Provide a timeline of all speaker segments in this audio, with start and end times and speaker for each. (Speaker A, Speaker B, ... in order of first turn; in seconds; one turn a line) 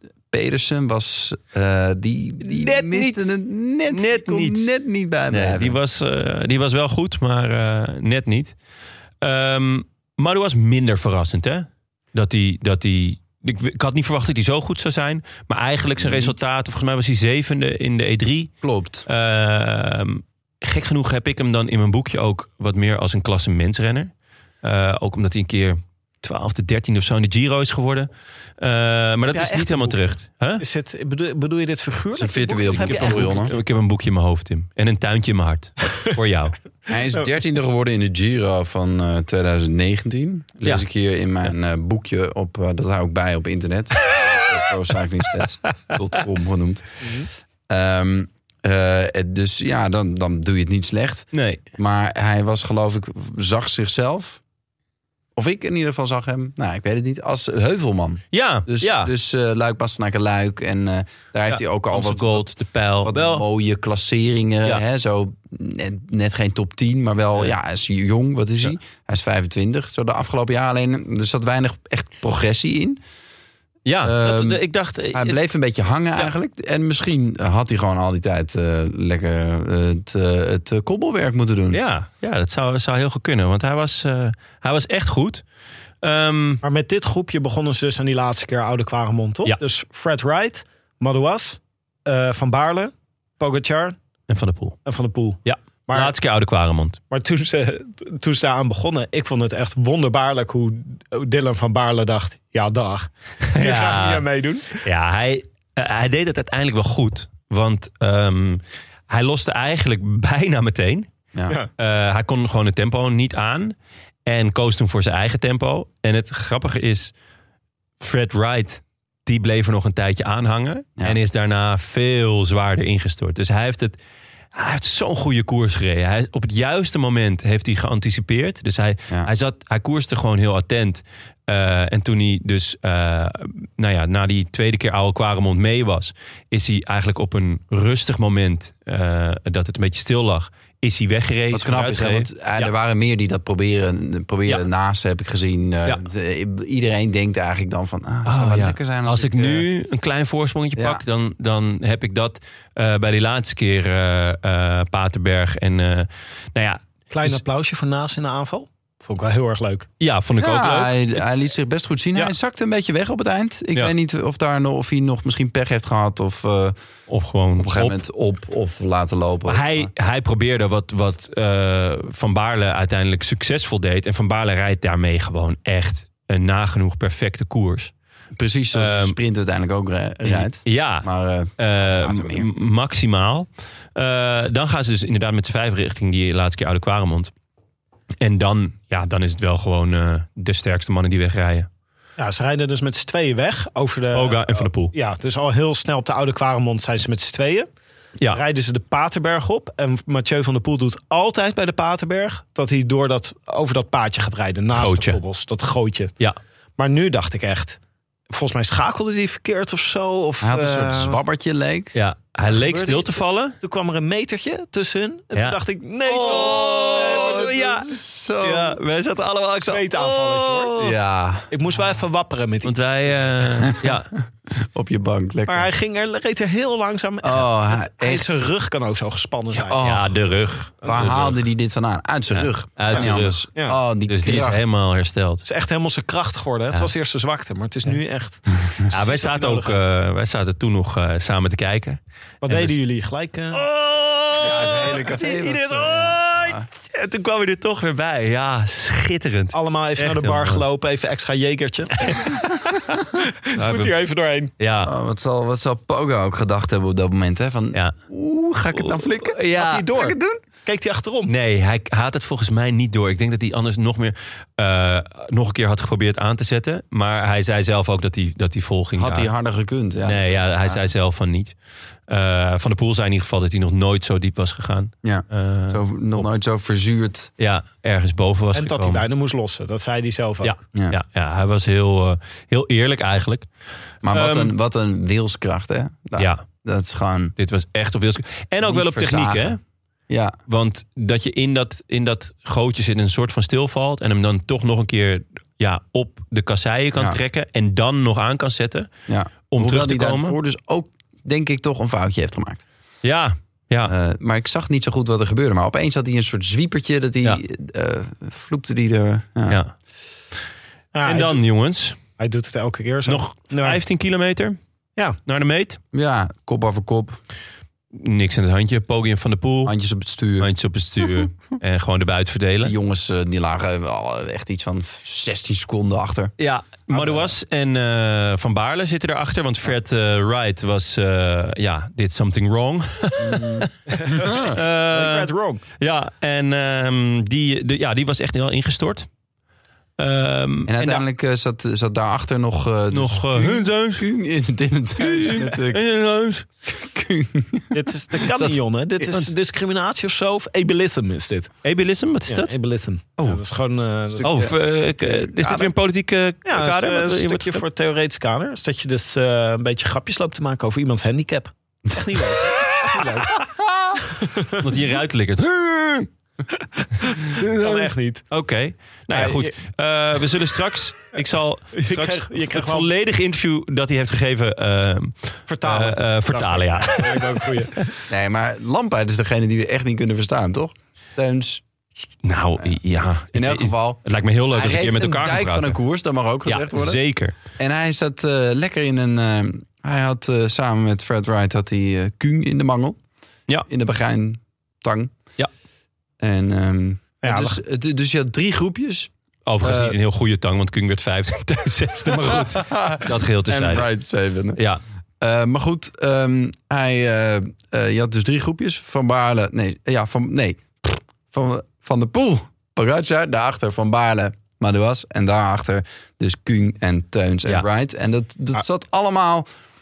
Speaker A: 0.3-5.8
Speaker B: 2.4-3.3
Speaker B: 3.9-4.7
Speaker B: 5.3-8.5
Speaker B: 9.2-18.5
Speaker A: 16.0-16.4
Speaker A: 18.6-19.1
Speaker B: 19.1-24.1
Speaker B: 24.6-28.1
Speaker B: 28.6-30.6
Speaker C: 29.3-30.0
Speaker C: 30.6-33.5
Speaker A: 32.1-33.5
Speaker B: 32.8-36.6
Speaker A: 36.9-47.0
Speaker C: 47.0-47.3
Speaker A: 47.7-54.4
Speaker B: 51.3-51.6
Speaker A: 55.4-62.5
Speaker B: 58.3-59.1
Speaker B: 61.5-63.4
Speaker A: 63.0-73.0
Speaker B: 73.8-75.4
Speaker A: 74.0-81.8
Speaker B: 81.7-85.4
Speaker B: 86.0-86.6
Speaker C: 86.6-94.0
Speaker B: 94.3-94.8
Speaker C: 94.8-96.1
Speaker B: 95.4-97.0
Speaker C: 97.1-104.8
Speaker B: 103.5-104.2
Speaker B: 104.8-111.1
Speaker B: 111.8-113.7
Speaker B: 114.2-117.1
Speaker B: 118.0-124.0
Speaker B: 124.5-142.7
Speaker A: 141.5-149.7
Speaker B: 148.2-157.4
Speaker A: 150.8-151.0
Speaker C: 157.1-159.9
Speaker B: 160.0-160.9
Speaker A: 160.4-166.8
Speaker B: 167.1-168.0
Speaker A: 167.6-169.9
Speaker B: 169.5-177.9
Speaker A: 178.3-182.5
Speaker B: 178.7-179.2
Speaker B: 180.2-181.1
Speaker B: 181.6-187.3
Speaker B: 188.2-191.7
Speaker C: 192.2-197.7
Speaker B: 194.1-194.9
Speaker C: 198.3-206.1
Speaker B: 204.7-205.2
Speaker C: 206.8-207.8
Speaker C: 208.3-211.2
Speaker A: 210.4-211.9
Speaker B: 211.9-213.6
Speaker C: 212.5-217.7
Speaker A: 216.1-218.8
Speaker B: 216.3-217.9
Speaker B: 218.4-220.9
Speaker C: 219.6-220.7
Speaker A: 220.8-221.5
Speaker C: 221.5-222.9
Speaker B: 222.6-224.1
Speaker A: 224.5-225.7
Speaker C: 225.5-229.8
Speaker A: 227.2-228.4
Speaker A: 229.7-230.1
Speaker B: 229.8-231.4
Speaker A: 230.8-234.7
Speaker B: 232.3-233.5
Speaker C: 232.9-233.8
Speaker B: 234.1-235.4
Speaker C: 235.4-239.8
Speaker B: 238.9-242.8
Speaker C: 242.4-243.6
Speaker B: 243.5-250.6
Speaker A: 244.4-246.7
Speaker C: 249.5-252.4
Speaker B: 252.1-252.8
Speaker C: 253.1-254.5
Speaker B: 253.6-253.9
Speaker B: 254.6-254.9
Speaker A: 254.8-259.4
Speaker B: 258.7-260.1
Speaker C: 259.5-261.3
Speaker A: 259.9-260.4
Speaker B: 261.3-269.3
Speaker A: 268.9-270.8
Speaker B: 270.0-271.5
Speaker B: 272.1-275.8
Speaker A: 275.0-277.3
Speaker B: 277.4-279.0
Speaker C: 278.5-280.5
Speaker B: 280.4-283.5
Speaker A: 284.0-287.3
Speaker B: 284.1-284.5
Speaker B: 286.2-286.4
Speaker B: 287.4-289.6
Speaker A: 288.6-289.6
Speaker A: 290.1-290.4
Speaker B: 290.5-298.9
Speaker A: 299.1-302.6
Speaker B: 299.5-300.4
Speaker B: 303.0-303.9
Speaker A: 303.9-309.6
Speaker B: 309.5-309.7
Speaker C: 310.9-311.4
Speaker B: 311.1-312.0
Speaker C: 312.2-313.8
Speaker B: 313.1-314.6
Speaker B: 315.2-315.8
Speaker A: 315.9-317.2
Speaker B: 317.9-319.7
Speaker A: 319.6-320.5
Speaker B: 320.4-322.7
Speaker A: 322.6-326.3
Speaker B: 326.4-333.7
Speaker A: 326.9-327.3
Speaker A: 333.2-334.6
Speaker C: 333.9-335.6
Speaker B: 334.3-339.1
Speaker B: 340.0-341.0
Speaker A: 340.7-345.8
Speaker B: 342.9-344.0
Speaker B: 345.0-346.4
Speaker A: 346.6-347.7
Speaker C: 347.7-351.5
Speaker B: 351.6-352.5
Speaker C: 352.3-354.5
Speaker A: 354.1-355.7
Speaker B: 354.2-357.6
Speaker C: 356.4-363.4
Speaker A: 363.5-363.9
Speaker C: 364.1-364.6
Speaker B: 364.6-366.1
Speaker C: 366.6-368.2
Speaker B: 367.2-377.4
Speaker C: 369.1-369.5
Speaker C: 371.7-372.9
Speaker C: 375.5-377.9
Speaker A: 378.1-381.6
Speaker B: 382.2-385.8
Speaker A: 383.3-387.0
Speaker B: 386.4-387.3
Speaker A: 387.6-393.0
Speaker A: 393.7-395.1
Speaker A: 396.2-399.1
Speaker C: 397.2-397.6
Speaker B: 399.4-403.9
Speaker A: 399.6-400.0
Speaker A: 402.2-404.6
Speaker B: 404.6-404.8
Speaker A: 405.2-419.5